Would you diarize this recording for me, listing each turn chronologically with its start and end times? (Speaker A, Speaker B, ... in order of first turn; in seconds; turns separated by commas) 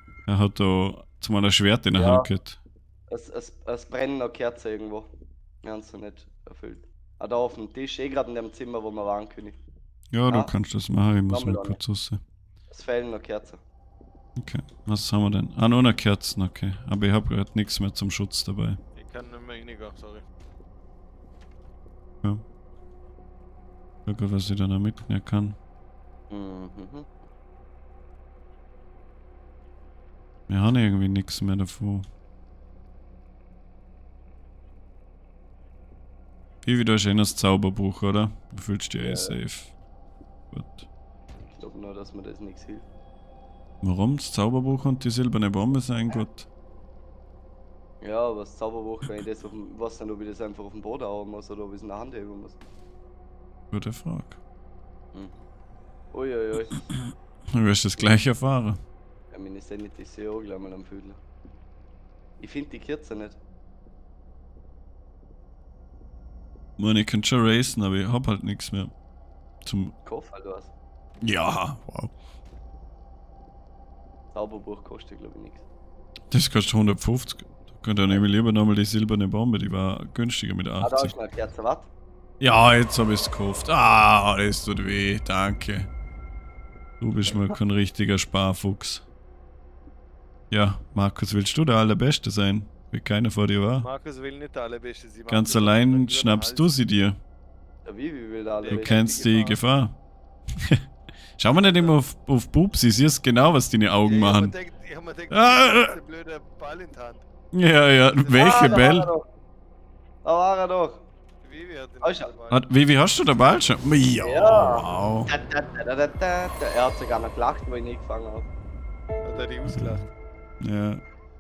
Speaker A: 0.3-2.6, Speaker B: 1.9-2.3, Speaker B: 3.1-5.1, Speaker B: 5.6-9.6, Speaker A: 10.1-12.2, Speaker B: 10.3-10.5, Speaker B: 11.3-11.8, Speaker B: 12.7-13.6, Speaker A: 14.4-18.8, Speaker C: 18.9-20.2, Speaker A: 24.1-25.6, Speaker B: 26.3-27.2, Speaker A: 30.5-32.0, Speaker A: 36.6-39.7, Speaker B: 39.0-39.4, Speaker A: 40.5-40.9, Speaker B: 41.5-42.9, Speaker A: 43.8-46.5, Speaker B: 48.0-52.6, Speaker A: 53.7-54.4, Speaker B: 55.1-55.5, Speaker B: 56.1-56.9, Speaker A: 57.5-58.8, Speaker B: 59.3-61.2, Speaker B: 62.4-63.4, Speaker A: 66.8-68.9, Speaker A: 69.6-70.0, Speaker B: 70.0-70.7, Speaker A: 71.2-72.1, Speaker B: 74.3-75.6, Speaker A: 76.3-81.1, Speaker B: 80.8-81.9, Speaker A: 82.4-85.9, Speaker A: 87.0-89.1, Speaker B: 87.3-87.5, Speaker A: 90.5-93.9, Speaker C: 93.8-96.7, Speaker A: 95.3-97.2, Speaker B: 97.8-99.0, Speaker C: 98.6-99.6, Speaker A: 98.7-100.0, Speaker A: 101.4-104.5, Speaker C: 101.5-102.0, Speaker C: 104.0-107.2, Speaker A: 105.3-106.0, Speaker A: 107.5-109.1, Speaker C: 108.2-108.6, Speaker B: 108.3-109.3, Speaker B: 110.2-111.0, Speaker C: 111.4-112.7, Speaker B: 112.0-112.3, Speaker A: 112.5-115.3, Speaker B: 114.2-118.5, Speaker C: 119.2-120.0, Speaker A: 119.7-120.0, Speaker A: 120.6-121.0